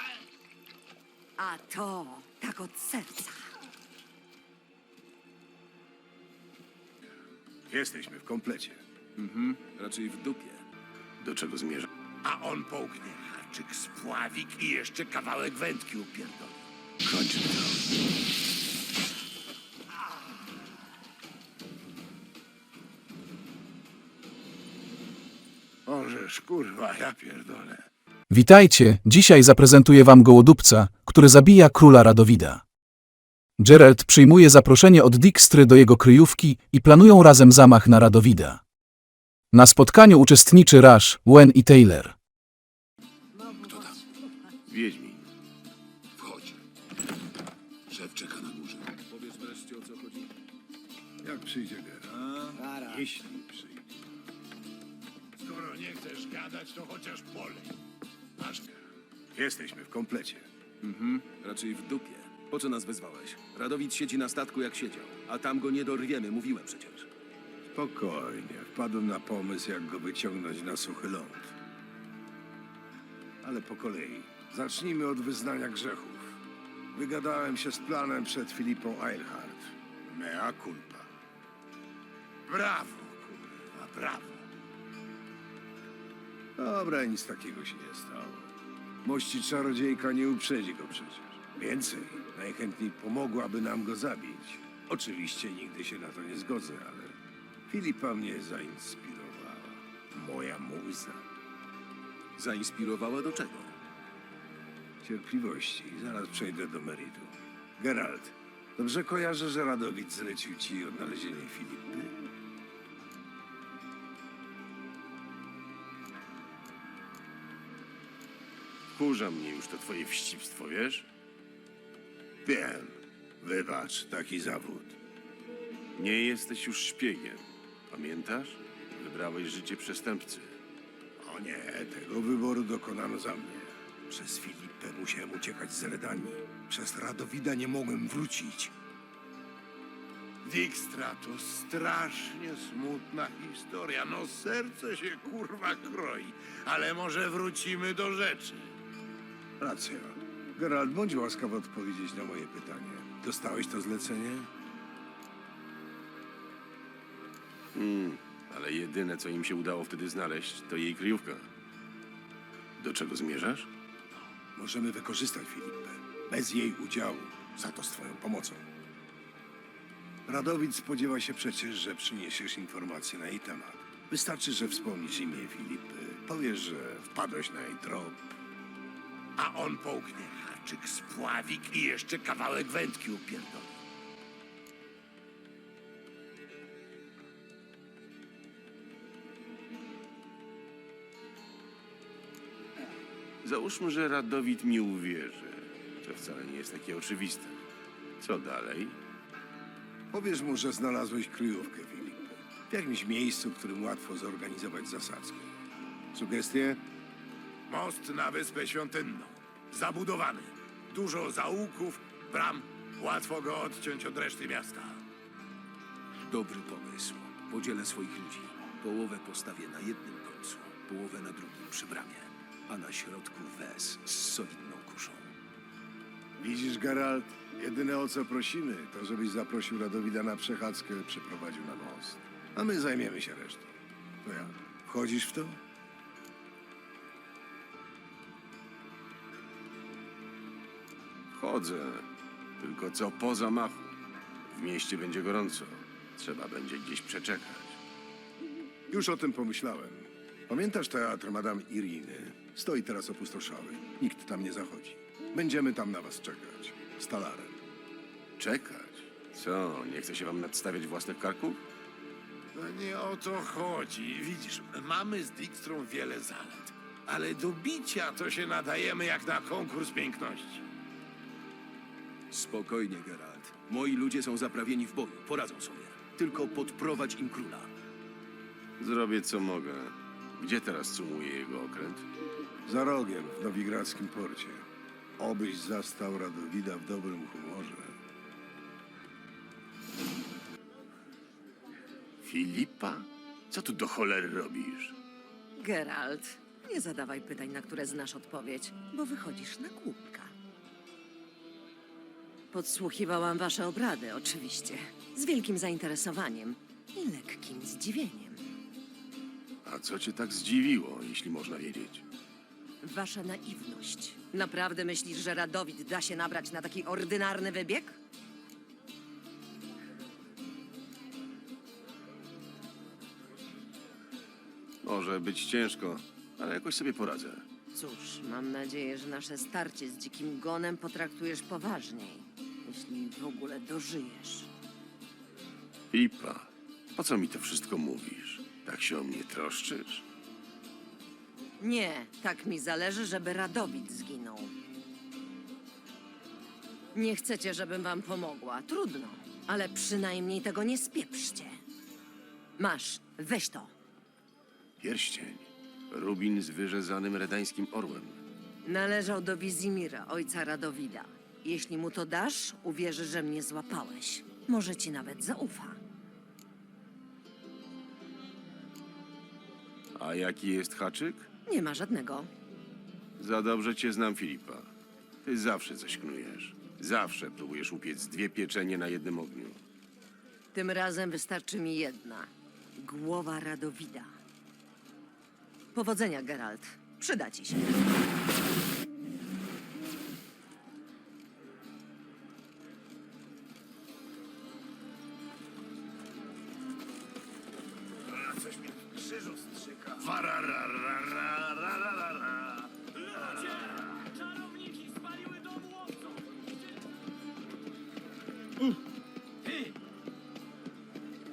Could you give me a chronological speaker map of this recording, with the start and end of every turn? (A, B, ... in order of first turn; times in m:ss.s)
0:01.4-0:03.5 A
0:07.7-0:08.8 B
0:09.2-0:10.6 C
0:11.2-0:11.9 D
0:12.2-0:16.5 E
0:17.2-0:17.6 B
0:25.9-0:27.8 E
0:28.3-0:32.6 F
0:33.6-0:38.6 F
0:39.5-0:42.2 F
0:44.7-0:45.2 D
0:49.0-0:50.3 C
0:51.2-0:53.8 B
0:55.4-0:57.7 E
0:58.4-0:58.6 E
0:59.4-1:00.5 B
1:00.8-1:07.1 C
1:07.7-1:11.6 B
1:13.4-1:16.4 B
1:17.0-1:21.1 B
1:22.5-1:24.4 E
1:26.6-1:28.5 B
1:29.0-1:37.1 B
1:37.7-1:41.2 B
1:42.4-1:43.8 C
1:45.0-1:52.1 B
1:59.0-2:01.1 D
2:02.5-2:05.0 B
2:06.0-2:10.5 D
2:11.2-2:18.7 B
2:20.4-2:28.7 E
2:29.6-2:34.5 B
2:37.7-2:41.5 D
2:42.8-2:43.7 D
2:44.6-2:48.6 B
2:50.3-2:58.2 B
2:59.4-3:03.7 E
3:13.4-3:17.6 D
3:18.2-3:19.0 D
3:20.1-3:25.5 B
3:26.1-3:26.8 B
3:27.7-3:35.0 E
3:36.3-3:45.3 C
3:46.4-3:53.7 B
3:54.2-3:55.6 B
4:01.3-4:02.1 D
4:02.6-4:03.9 D
4:04.5-4:07.8 D
4:08.9-4:17.6 B
4:18.4-4:21.6 D
4:22.6-4:30.7 E
4:32.3-4:37.7 C
4:38.8-4:42.1 D
4:42.7-4:44.6 B
4:45.2-4:47.9 B
4:52.2-4:55.0 D
4:55.6-5:00.3 A
5:02.5-5:08.4 A
5:09.6-5:12.0 D
5:12.8-5:18.0 A
5:24.8-5:27.4 D
5:27.7-5:34.5 A
5:35.9-5:40.0 D
5:41.6-5:44.5 A
5:46.9-5:51.6 A
5:52.6-5:53.7 A
5:54.8-5:58.2 D
5:58.6-6:05.8 A
6:10.0-6:11.3 D
6:11.5-6:12.3 A
6:13.2-6:14.7 D
6:15.2-6:19.6 D
6:20.5-6:24.1 A
6:25.7-6:27.8 A
6:39.6-6:42.6 E